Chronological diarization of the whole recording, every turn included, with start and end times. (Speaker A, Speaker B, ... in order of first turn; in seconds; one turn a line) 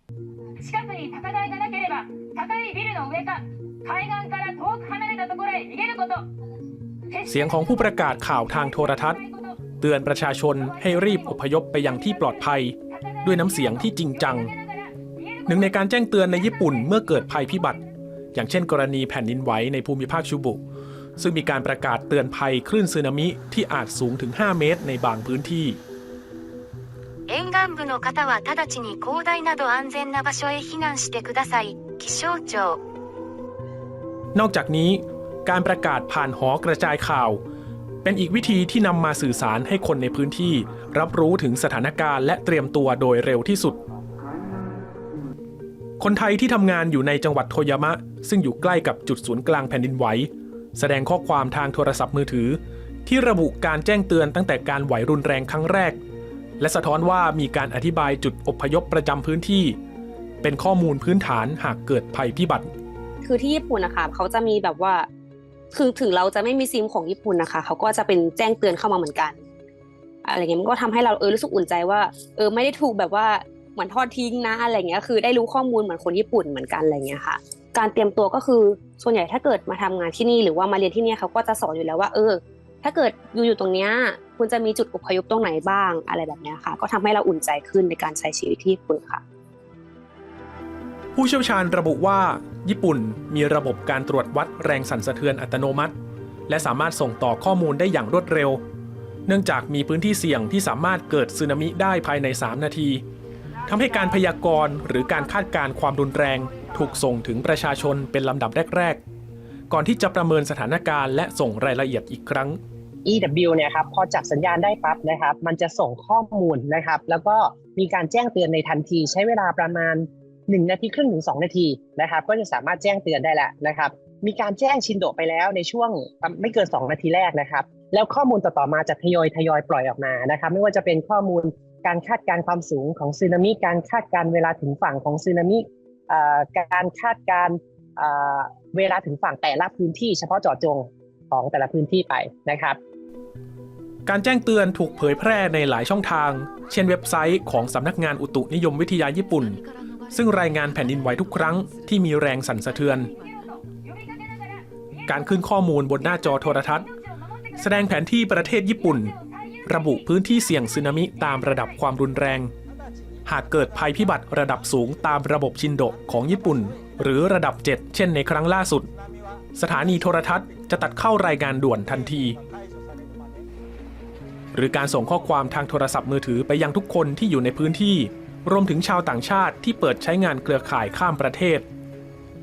Speaker A: 0.7-6.3
Speaker B: 7.2-9.2
Speaker B: 9.8-14.5
Speaker B: 15.4-17.8
Speaker B: 18.3-20.6
Speaker B: 21.2-25.8
Speaker C: 27.3-32.8
Speaker B: 34.3-37.4
Speaker B: 38.0-43.8
Speaker B: 46.0-56.0
Speaker B: 56.6-59.8
Speaker B: 60.4-62.7
Speaker D: 63.2-65.1
Speaker D: 65.7-69.4
Speaker D: 70.2-89.2
Speaker B: 91.1-95.9
Speaker B: 96.5-98.6
Speaker B: 99.3-103.0
Speaker B: 103.7-109.0
Speaker B: 109.7-112.6
Speaker E: 113.0-142.8
Speaker B: 144.1-153.1
Speaker B: 155.0-156.9
Speaker B: 157.6-162.5
Speaker B: 163.2-168.9
Speaker B: 169.5-172.4
Speaker B: 174.5-181.7